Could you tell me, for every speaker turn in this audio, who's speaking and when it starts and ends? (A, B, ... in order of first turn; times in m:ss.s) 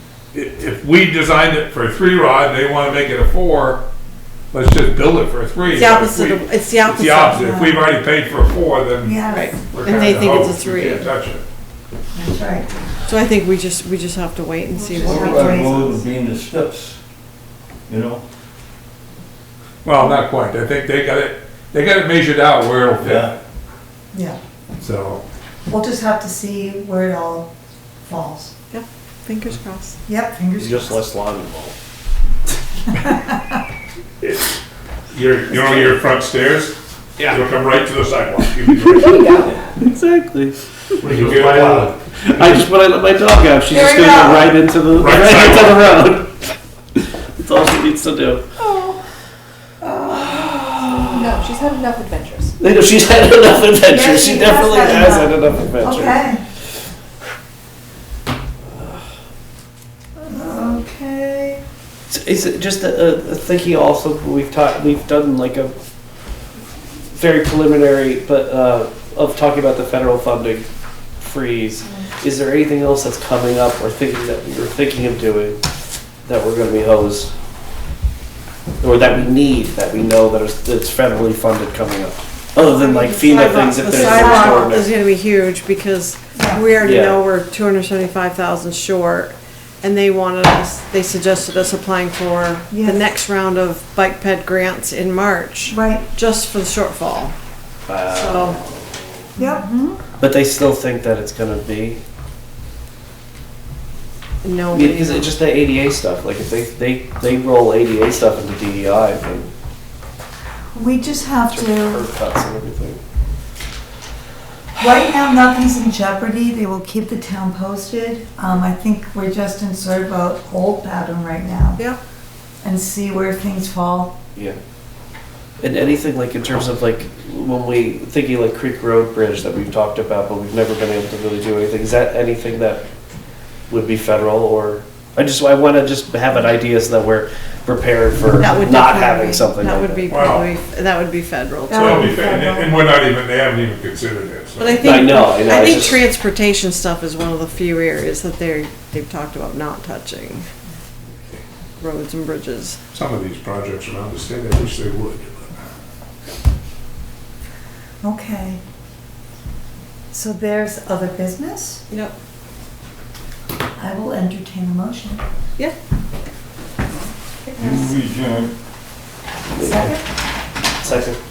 0:00.3-0:03.8 A
0:04.5-0:11.4 A
0:05.7-0:07.5 B
0:07.4-0:07.8 C
0:09.0-0:09.5 C
0:09.3-0:11.1 B
0:12.1-0:12.7 C
0:13.1-0:15.9 B
0:14.9-0:15.8 C
0:14.9-0:17.0 D
0:17.9-0:18.2 D
0:19.8-0:23.3 A
0:23.0-0:23.3 D
0:24.1-0:24.4 C
0:24.8-0:25.2 A
0:25.7-0:27.5 C
0:28.0-0:28.5 C
0:28.7-0:30.0 B
0:30.0-0:31.0 C
0:30.6-0:31.7 E
0:35.1-0:39.1 A
0:38.9-0:46.6 E
0:39.0-0:39.6 F
0:41.0-0:42.6 A
0:43.7-0:44.5 C
0:44.9-0:45.9 A
0:47.4-0:48.4 E
0:48.6-0:48.9 F
0:49.9-0:50.3 C
0:50.0-0:51.3 E
0:50.8-0:52.5 F
0:52.6-0:56.2 E
0:53.9-0:56.4 C
1:00.2-1:01.6 C
1:02.1-1:05.7 E
1:07.1-1:10.6 E
1:11.2-1:15.6 E
1:16.2-1:17.3 E
1:18.8-1:24.9 E
1:22.6-1:37.3 B
1:23.9-1:24.7 C
1:26.3-1:26.7 C
1:26.8-1:27.2 E
1:32.7-1:33.0 C
1:35.7-1:36.0 C
1:37.8-1:39.2 E
1:38.0-1:38.6 B
1:39.4-1:39.7 C
1:40.2-1:42.0 E
1:44.4-1:45.3 B
1:44.7-1:49.5 E
1:50.7-1:52.0 C
1:51.3-1:53.0 E
1:54.8-2:01.8 C
2:02.6-2:04.1 C
2:05.6-2:12.8 E
2:13.7-2:20.1 E
2:18.3-2:22.1 B
2:20.1-2:20.5 A
2:21.7-2:22.8 C
2:21.7-2:24.8 A
2:24.6-2:30.5 B
2:24.8-2:26.1 E
2:31.8-2:32.8 B
2:32.9-2:35.5 A
2:38.0-2:38.6 C
2:40.1-2:41.8 C
2:41.9-2:42.1 B
2:43.8-2:45.2 C
2:47.6-2:48.5 D
2:49.5-2:49.9 E
2:49.6-2:50.0 C
2:50.8-2:51.2 E